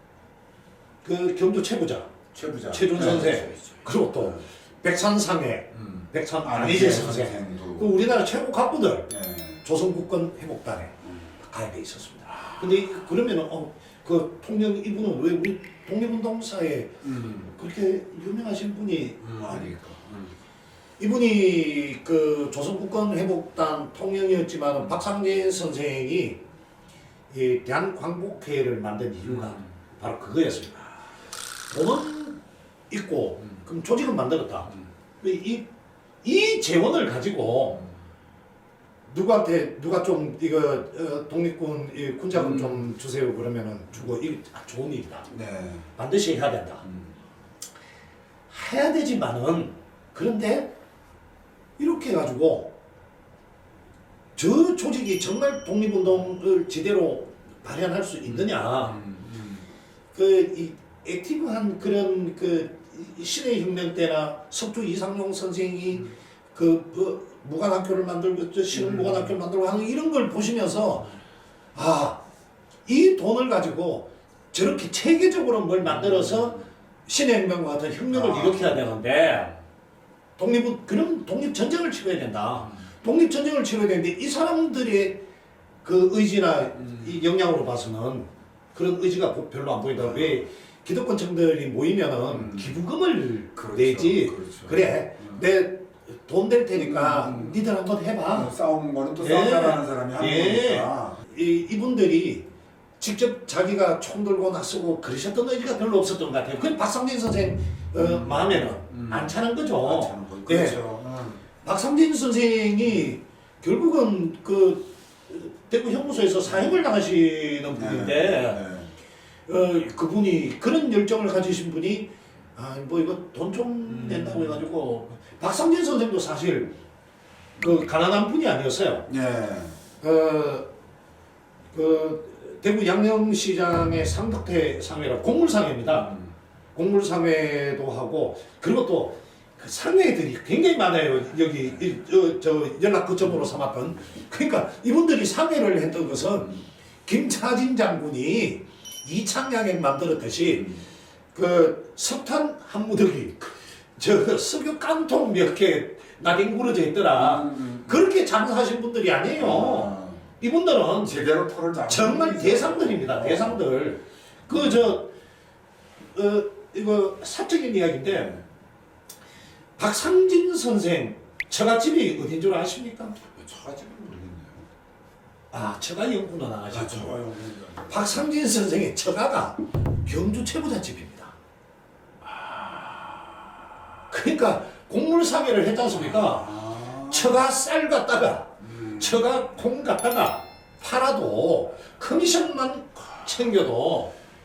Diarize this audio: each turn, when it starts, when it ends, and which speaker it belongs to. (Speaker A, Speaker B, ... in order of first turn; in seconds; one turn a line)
Speaker A: 1.0-2.1
Speaker B: 2.3-4.4
Speaker A: 2.7-9.1
Speaker B: 5.7-7.9
Speaker B: 9.1-9.6
Speaker A: 9.6-19.7
Speaker B: 17.0-17.5
Speaker B: 19.2-20.3
Speaker A: 21.0-26.4
Speaker A: 27.3-30.9
Speaker B: 29.2-29.6
Speaker A: 31.7-35.7
Speaker A: 36.2-37.9
Speaker A: 39.1-45.3
Speaker B: 42.3-42.9
Speaker B: 45.3-45.9
Speaker A: 45.9-46.8
Speaker A: 48.5-50.7
Speaker A: 51.8-52.7
Speaker A: 54.4-59.0
Speaker B: 58.2-59.6
Speaker A: 60.1-71.1
Speaker B: 68.7-69.3
Speaker A: 71.7-72.2
Speaker A: 72.8-79.5
Speaker B: 76.0-76.4
Speaker B: 78.1-78.9
Speaker A: 80.4-85.2
Speaker A: 85.8-98.5
Speaker B: 89.9-90.4
Speaker B: 92.3-92.8
Speaker B: 93.5-95.4
Speaker B: 96.7-97.6
Speaker B: 98.3-101.2
Speaker A: 99.2-102.5
Speaker A: 103.0-110.8
Speaker B: 108.0-111.4
Speaker A: 111.6-118.6
Speaker B: 117.7-118.9
Speaker A: 119.5-126.8
Speaker B: 123.8-124.6
Speaker A: 127.6-129.1
Speaker B: 129.1-129.8
Speaker A: 130.0-130.7
Speaker A: 131.7-136.2
Speaker B: 135.8-136.3
Speaker A: 136.7-150.8
Speaker B: 150.5-150.8
Speaker A: 151.3-161.2
Speaker B: 157.1-158.0
Speaker B: 159.3-160.2
Speaker B: 161.0-163.6
Speaker A: 161.9-165.1
Speaker A: 166.1-168.3
Speaker B: 168.1-168.4
Speaker A: 169.8-173.2
Speaker B: 173.3-174.7
Speaker A: 175.5-177.2
Speaker B: 176.7-178.0
Speaker A: 177.9-181.3
Speaker B: 182.3-183.2
Speaker A: 184.1-194.1
Speaker B: 185.9-187.4
Speaker B: 188.6-189.3